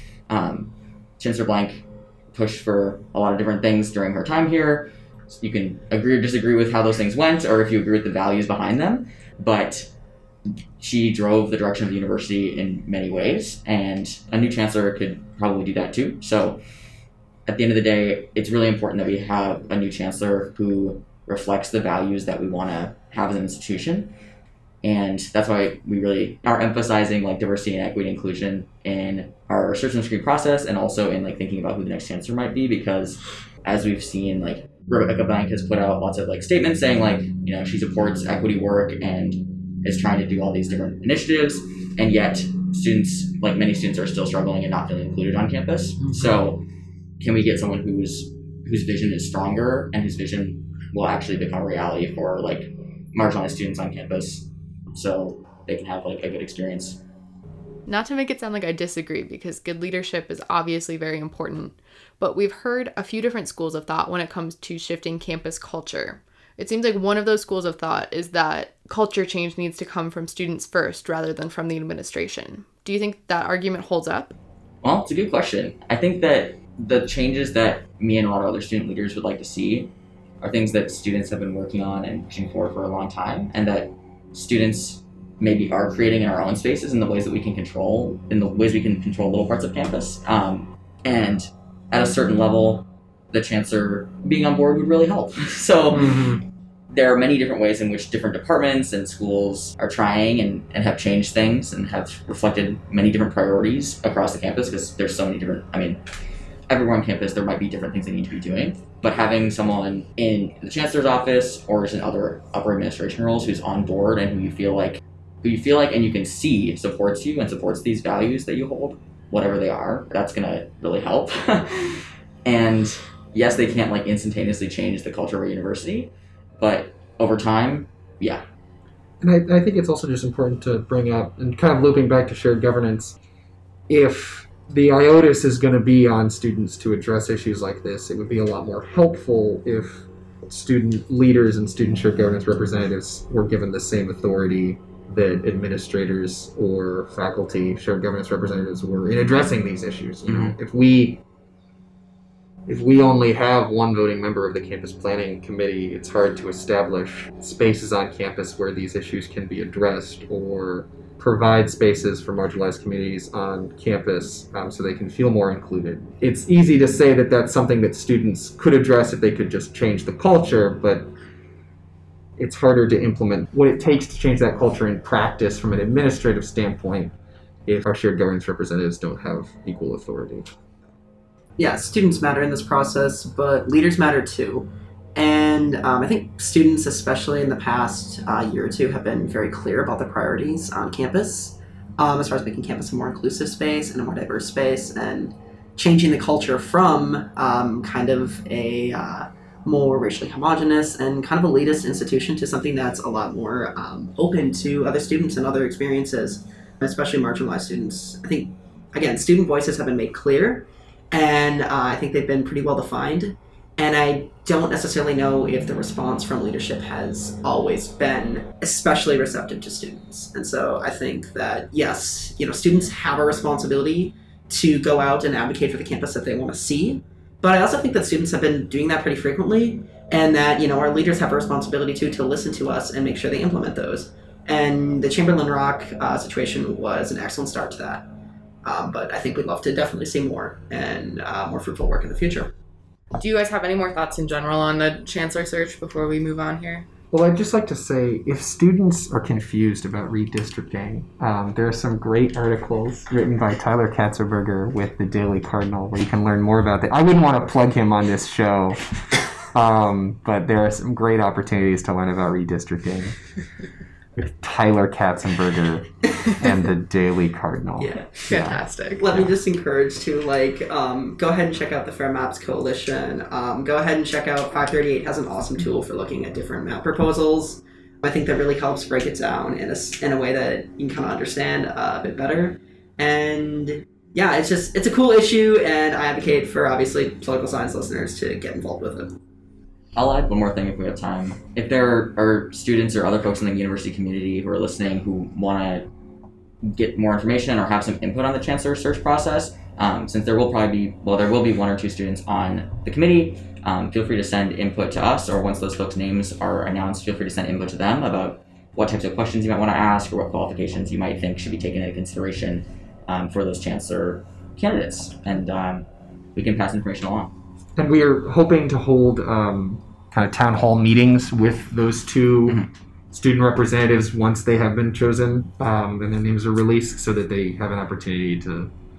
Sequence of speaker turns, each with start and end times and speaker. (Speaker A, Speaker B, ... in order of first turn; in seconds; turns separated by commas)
Speaker A: 0.3-9.9, Speaker A: 10.8-16.6, Speaker A: 17.5-24.1, Speaker A: 24.8-46.6, Speaker A: 47.2-57.0, Speaker B: 57.9-74.3, Speaker A: 74.8-79.9, Speaker A: 80.4-96.2, Speaker C: 95.9-96.4, Speaker A: 96.9-106.0, Speaker A: 106.7-128.4, Speaker C: 129.2-133.2, Speaker C: 133.9-151.2, Speaker A: 150.3-150.6, Speaker C: 152.7-171.1, Speaker C: 172.4-177.1, Speaker C: 177.7-180.5, Speaker D: 181.6-238.1, Speaker D: 238.6-242.5, Speaker B: 243.1-246.9, Speaker C: 247.1-263.2, Speaker C: 264.2-269.3, Speaker D: 267.8-268.1, Speaker B: 268.2-269.0, Speaker D: 269.0-289.1, Speaker A: 289.9-295.9, Speaker A: 296.6-317.3, Speaker C: 317.8-328.7